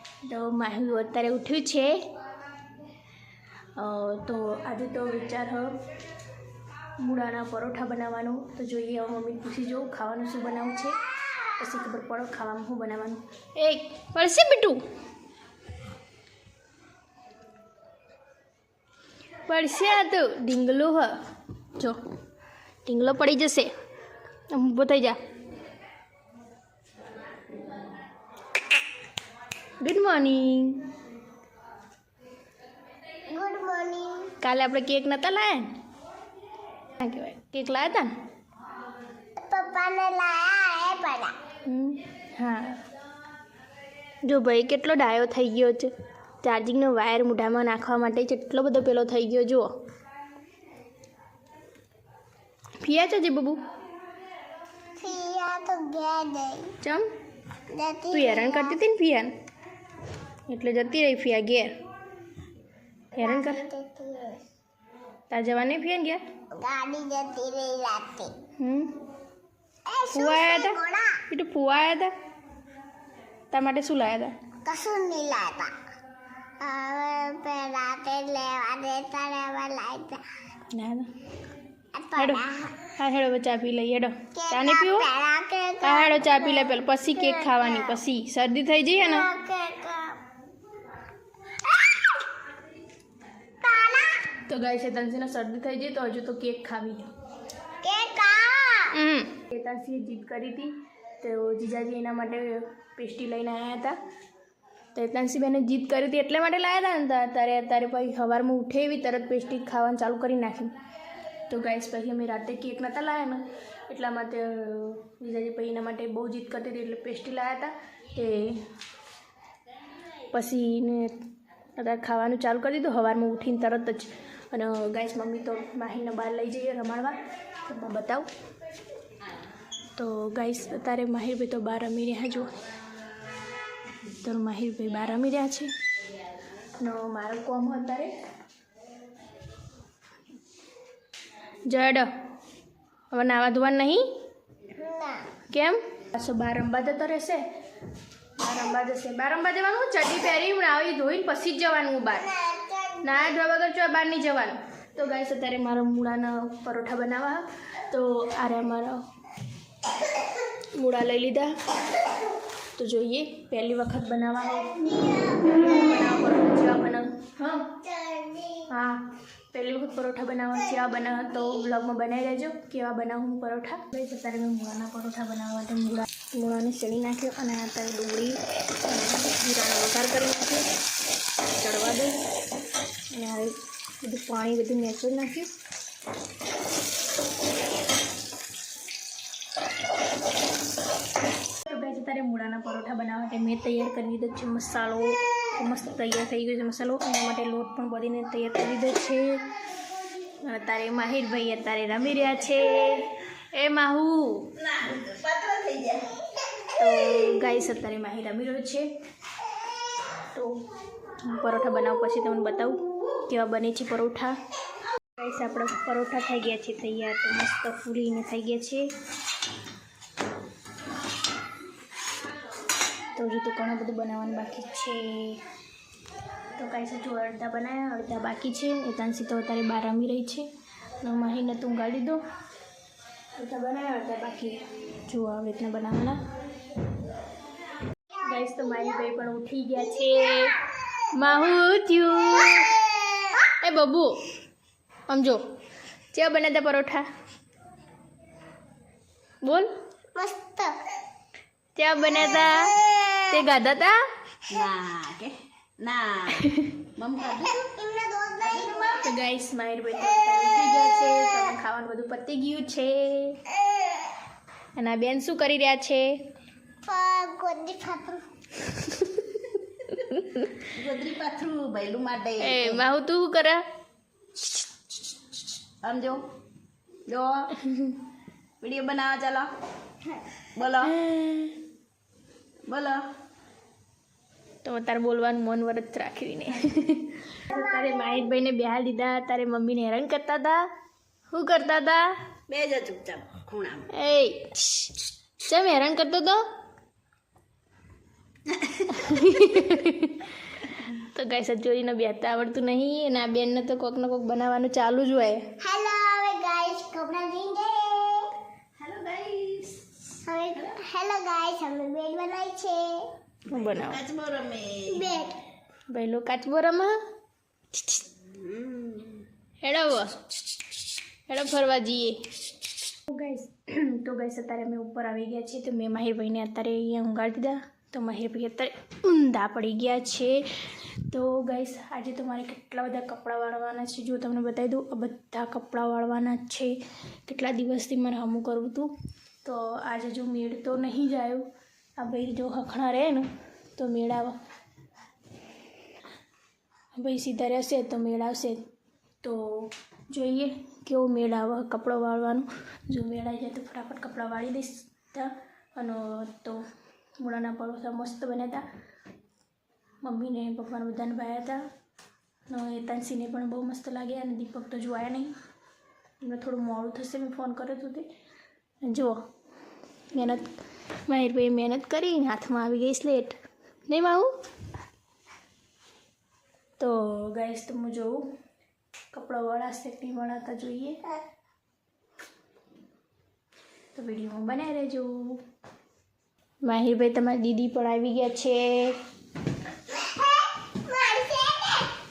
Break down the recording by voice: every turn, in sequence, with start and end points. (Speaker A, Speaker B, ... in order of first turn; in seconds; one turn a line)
Speaker A: 0.2-2.0
Speaker A: 3.8-5.8
Speaker A: 7.0-14.8
Speaker A: 19.5-21.2
Speaker A: 21.7-22.0
Speaker A: 22.9-23.7
Speaker A: 24.5-25.2
Speaker A: 29.8-30.9
Speaker B: 33.3-34.3
Speaker A: 34.4-35.7
Speaker A: 37.0-38.1
Speaker B: 39.4-41.4
Speaker A: 41.6-42.8
Speaker A: 44.2-45.9
Speaker A: 46.4-49.7
Speaker A: 52.8-53.6
Speaker B: 55.0-56.8
Speaker A: 56.8-57.1
Speaker B: 57.7-58.8
Speaker A: 58.1-59.3
Speaker A: 60.5-61.8
Speaker B: 63.1-64.4
Speaker A: 63.2-63.6
Speaker A: 65.3-66.2
Speaker B: 66.5-68.4
Speaker A: 68.6-68.9
Speaker B: 69.9-71.2
Speaker A: 70.1-72.1
Speaker A: 73.5-74.3
Speaker B: 74.7-75.8
Speaker B: 76.6-80.2
Speaker A: 80.7-81.1
Speaker B: 81.9-82.8
Speaker A: 82.2-85.1
Speaker B: 84.3-88.0
Speaker A: 85.8-89.3
Speaker B: 89.0-90.2
Speaker B: 91.6-92.2
Speaker B: 93.6-94.4
Speaker A: 94.4-97.1
Speaker B: 97.8-99.0
Speaker A: 98.9-104.0
Speaker A: 104.9-110.7
Speaker A: 111.5-118.6
Speaker A: 120.3-121.2
Speaker A: 121.8-128.3
Speaker A: 130.0-132.6
Speaker A: 134.1-135.7
Speaker A: 136.8-138.1
Speaker A: 141.7-142.1
Speaker A: 143.1-144.0
Speaker B: 144.7-145.3
Speaker A: 145.5-147.4
Speaker A: 148.4-152.3
Speaker B: 152.1-153.3
Speaker A: 153.0-159.0
Speaker A: 160.8-161.5
Speaker A: 162.8-167.8
Speaker B: 164.6-165.6
Speaker B: 167.8-168.7
Speaker A: 168.7-180.7
Speaker A: 181.4-182.2
Speaker A: 183.1-185.6
Speaker A: 191.6-199.4
Speaker A: 200.4-204.6
Speaker C: 204.6-206.2
Speaker A: 206.8-208.9
Speaker A: 210.3-210.7
Speaker A: 211.2-214.4
Speaker A: 215.2-218.9
Speaker A: 223.2-225.4
Speaker A: 226.6-230.5
Speaker A: 231.0-232.2
Speaker A: 233.3-236.2
Speaker A: 238.2-242.8
Speaker B: 242.5-243.4
Speaker A: 243.5-244.2
Speaker A: 245.1-245.4
Speaker A: 246.1-247.1
Speaker A: 249.4-249.7
Speaker B: 250.2-250.8
Speaker A: 251.8-254.0
Speaker B: 252.8-253.2
Speaker C: 254.5-257.6
Speaker A: 256.3-256.9
Speaker B: 257.2-259.1
Speaker C: 258.5-259.0
Speaker A: 259.0-263.4
Speaker B: 263.7-264.1
Speaker A: 264.8-266.1
Speaker B: 266.9-268.2
Speaker A: 268.7-269.4
Speaker A: 269.9-270.6
Speaker C: 270.6-272.9
Speaker A: 272.4-273.6
Speaker C: 275.8-276.2
Speaker C: 277.1-277.6
Speaker A: 277.6-278.0
Speaker C: 278.6-279.5
Speaker C: 280.5-281.0
Speaker A: 280.8-281.6
Speaker C: 282.7-283.1
Speaker A: 284.6-290.6
Speaker A: 291.3-292.1
Speaker C: 292.5-293.9
Speaker A: 293.9-296.4
Speaker C: 298.5-299.4
Speaker A: 298.9-305.4
Speaker B: 305.6-308.3
Speaker C: 308.8-310.0
Speaker B: 310.2-313.1
Speaker A: 313.5-314.0
Speaker C: 313.7-315.1
Speaker B: 314.9-315.4
Speaker A: 315.9-316.9
Speaker A: 317.7-318.0
Speaker C: 318.3-319.2
Speaker A: 319.6-320.3
Speaker A: 321.3-322.3
Speaker A: 323.1-336.8
Speaker A: 337.3-338.9
Speaker A: 339.4-341.5
Speaker A: 342.0-344.4
Speaker A: 346.9-348.6
Speaker A: 349.2-356.6
Speaker A: 357.2-358.6
Speaker A: 360.0-361.6
Speaker A: 362.5-365.3
Speaker A: 366.2-368.1
Speaker A: 368.8-369.2
Speaker A: 370.1-370.5
Speaker A: 371.1-374.3
Speaker A: 376.8-378.2
Speaker A: 379.1-381.0
Speaker A: 383.9-385.4
Speaker A: 386.6-389.0
Speaker B: 389.9-392.0